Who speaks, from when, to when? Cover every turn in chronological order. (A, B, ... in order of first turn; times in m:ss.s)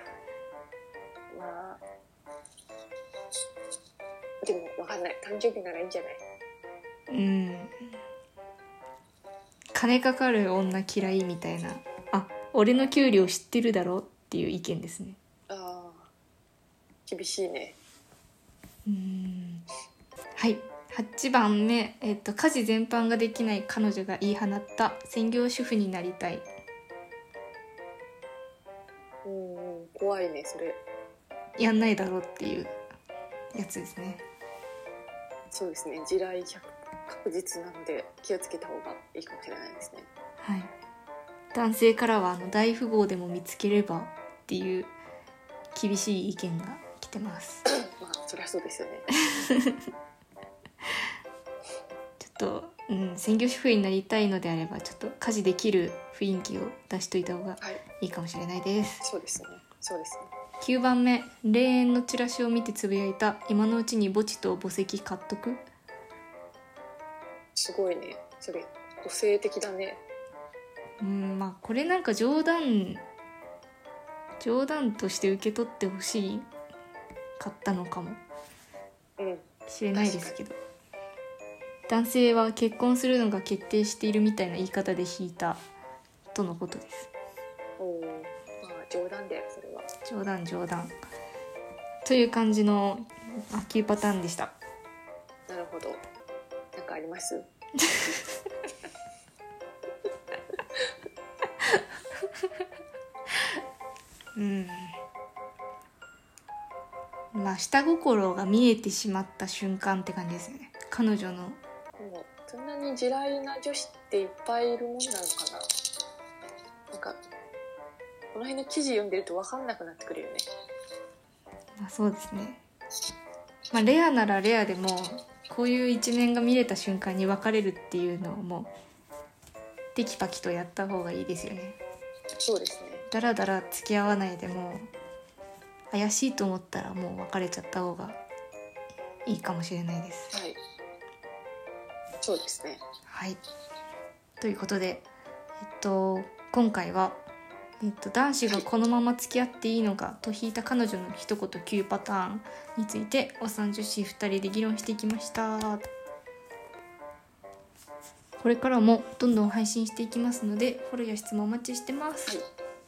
0:01.3-0:01.8 A
0:04.4-0:06.2 A
0:07.1-0:07.7 B
0:09.7-0:15.2 B
0:15.5-0:16.1 A
0:17.0-0:17.8 A
0:18.8-0:19.6 B
0:20.4-0:26.4 B
0:29.2-0:30.8 A
0:31.6-0:32.7 B
0:33.5-0:34.2 B
0:35.5-0:40.1 A
0:40.4-0:40.7 B
0:41.5-0:44.9 B
0:45.7-0:47.6 B
0:47.6-0:49.2 A
0:49.4-0:49.8 B
0:52.2-0:59.0 B
0:59.0-1:00.3 A
1:00.6-1:05.6 B
1:07.6-1:10.0 A
1:11.0-1:13.0 B
1:14.4-1:16.5 B
1:17.4-1:18.2 B
1:19.2-1:20.4 A
1:19.7-1:20.6 B
1:21.9-1:25.6 B
1:26.3-1:27.1 B
1:27.8-1:29.9 A
1:30.0-1:31.0 B
1:32.0-1:34.5 B
1:35.5-1:36.0 A
1:36.7-1:37.5 A
1:44.4-1:44.9 B
1:47.3-1:51.6 B
1:52.0-1:55.7 A
1:56.9-1:57.2 A
1:58.3-2:00.4 A
2:01.8-2:02.6 B
2:03.7-2:08.7 B
2:09.9-2:11.8 B
2:12.4-2:13.1 A
2:13.1-2:14.9 B
2:15.9-2:18.2 B
2:19.2-2:20.3 B
2:20.3-2:20.6 A
2:22.2-2:22.8 A
2:23.1-2:23.4 B
2:24.4-2:25.1 B
2:25.6-2:27.2 B
2:27.8-2:35.8 B
2:38.4-2:42.4 B